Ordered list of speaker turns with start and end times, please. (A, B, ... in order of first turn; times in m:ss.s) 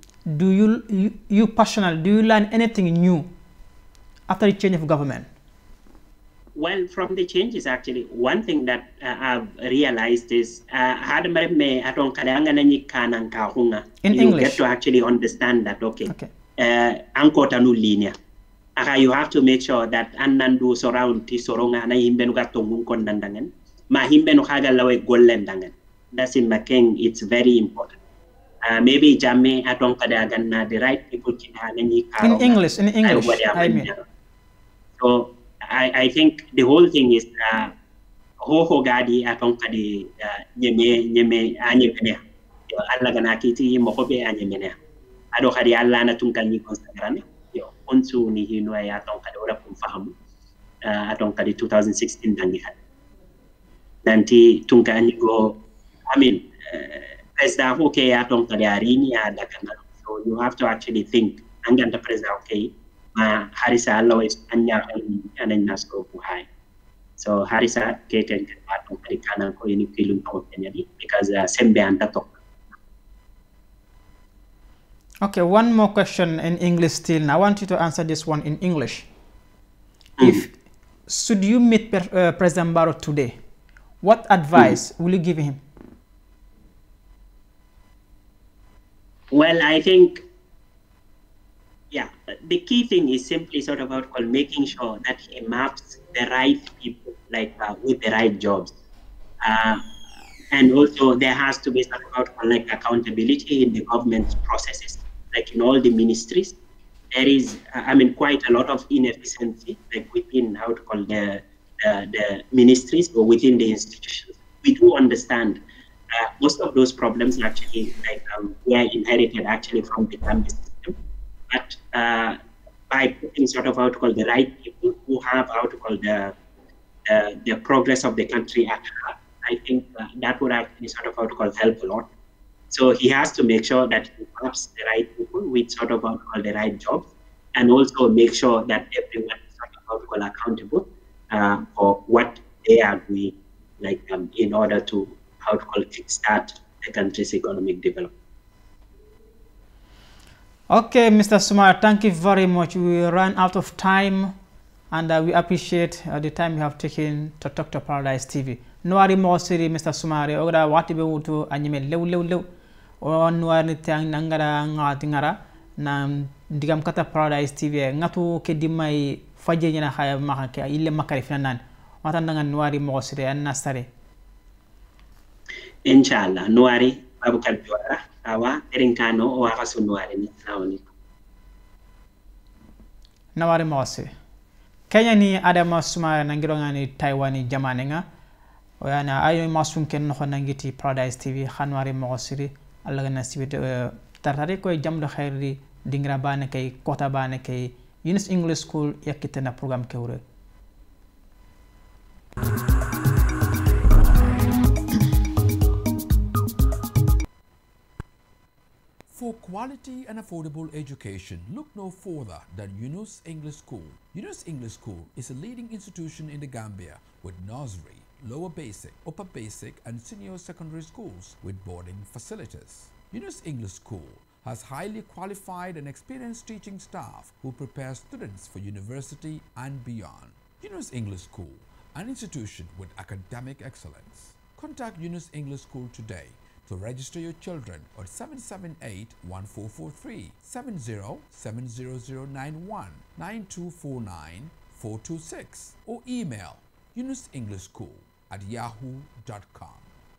0:00.3-0:03.3 A
0:04.3-0:05.3 A
0:06.6-0:18.1 B
0:14.0-0:14.6 A
0:18.8-0:28.0 B
0:28.6-0:34.0 B
0:32.2-0:33.9 A
0:35.0-0:37.7 B
0:38.4-0:44.8 B
0:45.3-0:50.1 B
0:50.8-0:52.8 B
0:54.0-0:55.6 B
0:56.1-1:06.5 B
1:07.2-1:12.5 B
1:15.2-1:19.1 A
1:20.2-1:20.4 B
1:20.2-1:20.5 A
1:21.1-1:23.4 A
1:24.0-1:25.6 A
1:29.3-1:30.2 B
1:31.9-1:38.7 B
1:39.4-1:39.8 B
1:40.5-1:46.6 B
1:47.1-2:01.0 B
2:01.5-2:02.4 B
2:02.9-2:06.4 B
2:07.0-2:12.1 B
2:12.7-2:28.1 B
2:30.7-2:34.3 A
2:34.9-2:42.4 A
2:43.0-2:53.9 A
2:55.8-3:00.9 B
3:03.4-3:04.1 A
3:04.9-3:08.0 A
3:08.8-3:20.2 A
3:29.1-4:09.9 C